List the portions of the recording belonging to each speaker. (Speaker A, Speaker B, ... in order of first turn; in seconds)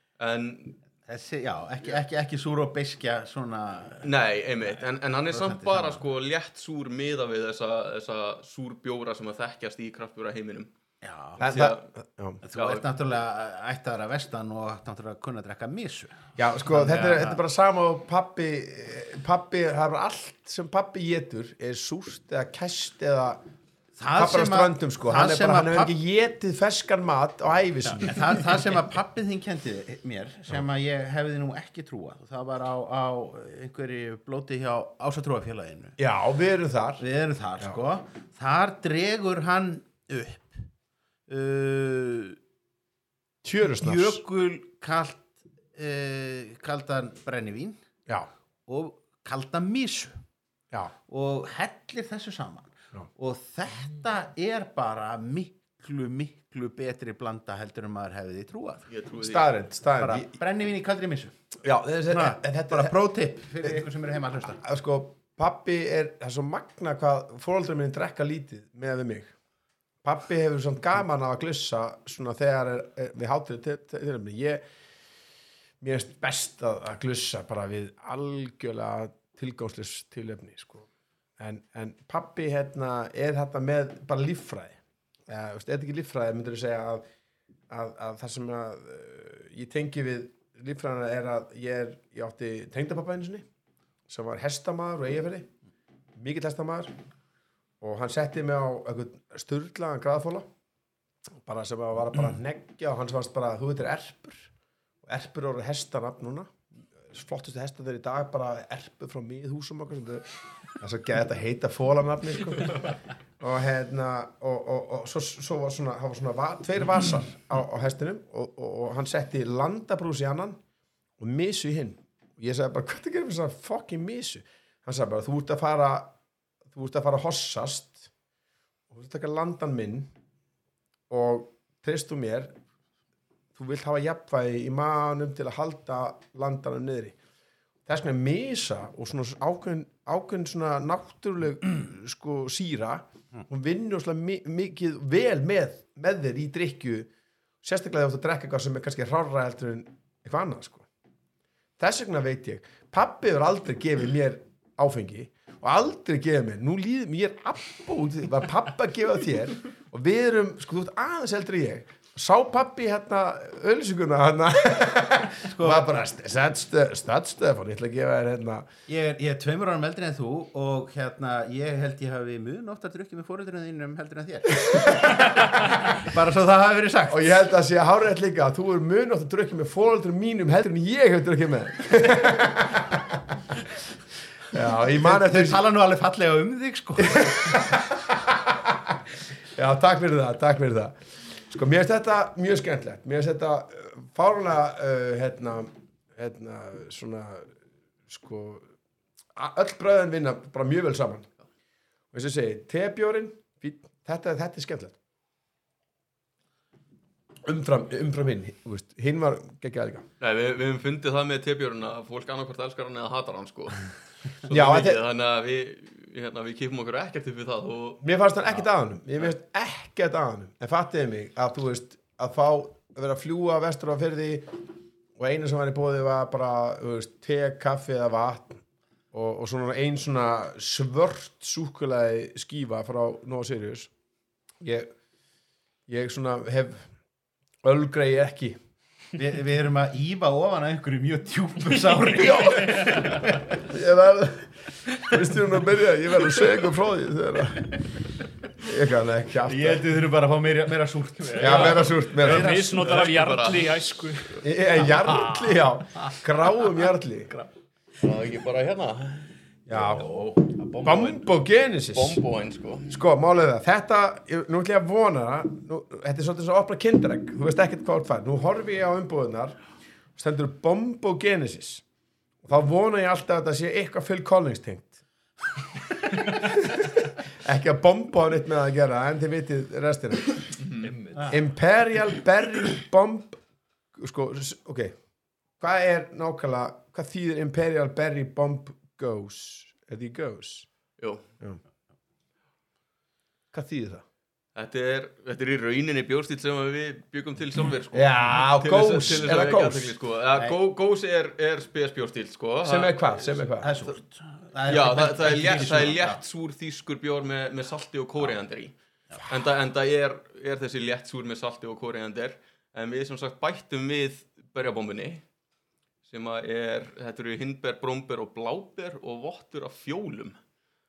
Speaker A: 0.2-0.8, 4.0-10.7, 11.4-11.8, 12.5-12.8, 58.9-59.5, 210.2-218.0, 252.7-253.8, 258.0-259.3, 261.9-263.0, 280.6-280.9, 291.0-291.2, 294.5-303.4, 304.7-315.2, 316.1-320.4
Speaker B: 1.0-4.1, 5.3-6.0, 11.0-11.5, 12.4-17.4, 24.0-25.9, 27.8-36.0, 37.0-40.7, 41.3-42.4, 43.8-47.8, 48.7-50.2, 51.1-58.9, 60.0-61.4, 62.1-64.6, 165.5-166.0, 168.9-177.3, 185.0-187.6, 239.2-243.4, 249.4-252.9, 259.9-260.4, 281.1-281.4, 303.6-306.2
Speaker C: 11.4-12.4, 16.4-23.4, 24.2-28.4, 36.0-37.0, 43.4-44.2, 59.2-60.3, 61.6-62.9, 64.6-69.3, 70.0-74.6, 75.8-87.0, 87.7-93.5, 94.1-95.5, 96.2-96.9, 97.8-100.5, 101.4-104.5, 105.0-120.6, 121.2-126.1, 126.7-128.1, 128.9-130.1, 131.1-132.5, 133.5-137.2, 137.8-147.1, 147.6-150.8, 151.8-168.7, 174.7-175.2, 177.1-183.5, 184.5-185.6, 187.0-189.0, 189.6-197.5, 198.1-198.7, 199.3-201.3, 202.1-205.0, 207.4-210.1, 214.5-215.0, 218.0-228.6, 229.1-233.9, 234.6-234.9, 235.9-236.9, 237.6-238.6, 242.1-243.0, 243.6-247.8, 248.6-249.8, 251.4-252.6, 254.4-257.3, 259.7-260.1, 260.8-262.2, 262.9-269.6, 270.1-271.8, 272.4-275.0, 276.4-280.4, 281.3-283.4, 283.9-284.9, 285.6-290.7, 293.5-294.0, 297.9-299.9, 302.6-303.7
Speaker D: 242.6-243.2, 251.3-255.2, 260.2-261.1, 280.8-281.4